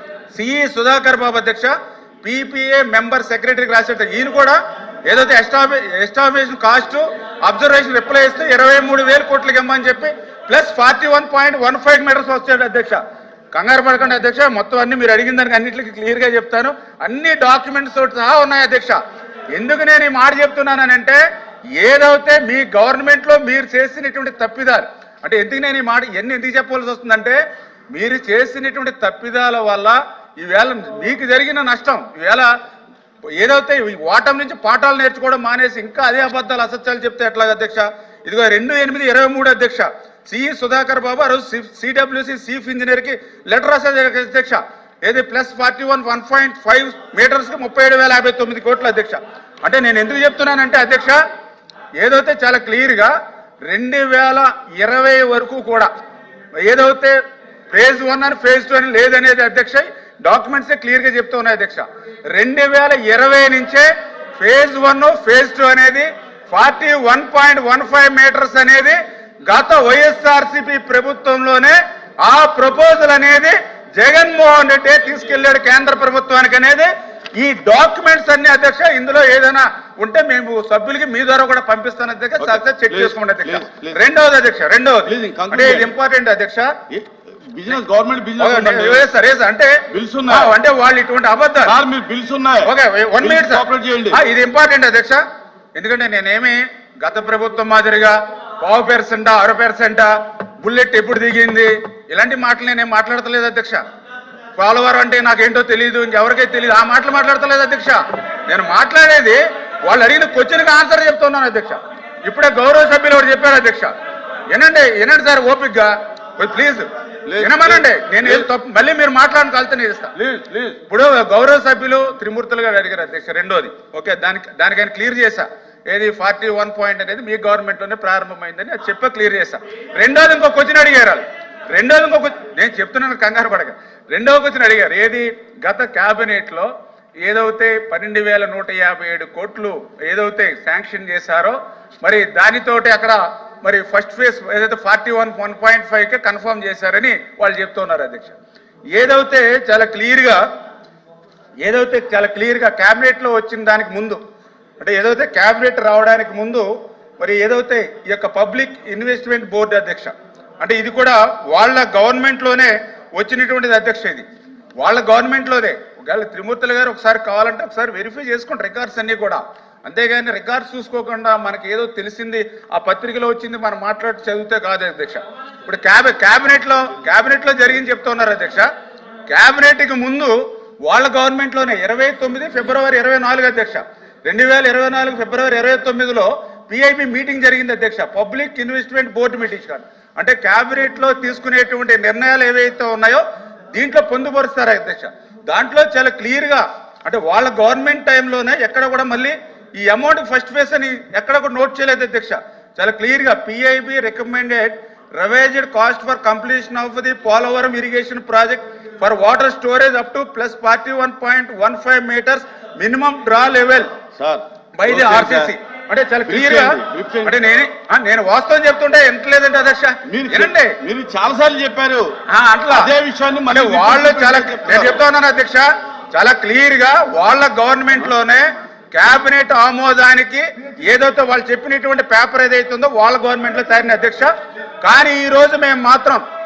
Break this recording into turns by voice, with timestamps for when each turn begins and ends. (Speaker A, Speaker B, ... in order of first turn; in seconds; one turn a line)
Speaker A: 0.3-13.0
Speaker A: 13.5-19.0
Speaker A: 19.5-21.2
Speaker A: 21.8-27.4
Speaker A: 27.9-32.5
Speaker A: 33.3-51.2
Speaker A: 52.0-53.1
Speaker A: 53.6-55.9
Speaker A: 56.6-57.2
Speaker A: 57.7-63.9
Speaker A: 64.4-86.7
Speaker B: 82.4-84.0
Speaker B: 85.0-85.9
Speaker B: 86.9-89.0
Speaker A: 88.4-91.8
Speaker B: 89.9-90.5
Speaker B: 91.6-94.2
Speaker A: 92.6-95.2
Speaker A: 95.8-103.8
Speaker A: 104.6-113.9
Speaker A: 114.5-116.9
Speaker B: 117.2-118.5
Speaker A: 117.4-120.1
Speaker B: 120.2-120.8
Speaker A: 120.9-136.7
Speaker A: 137.2-148.3
Speaker A: 148.9-150.4
Speaker A: 151.6-154.2
Speaker A: 154.8-156.7
Speaker A: 157.2-164.2
Speaker A: 164.8-178.7
Speaker A: 179.3-213.9
Speaker B: 214.2-215.5
Speaker A: 214.8-220.8
Speaker B: 216.2-217.4
Speaker B: 220.1-222.1
Speaker A: 222.3-222.9
Speaker B: 222.7-225.0
Speaker A: 223.5-234.3
Speaker A: 234.8-236.2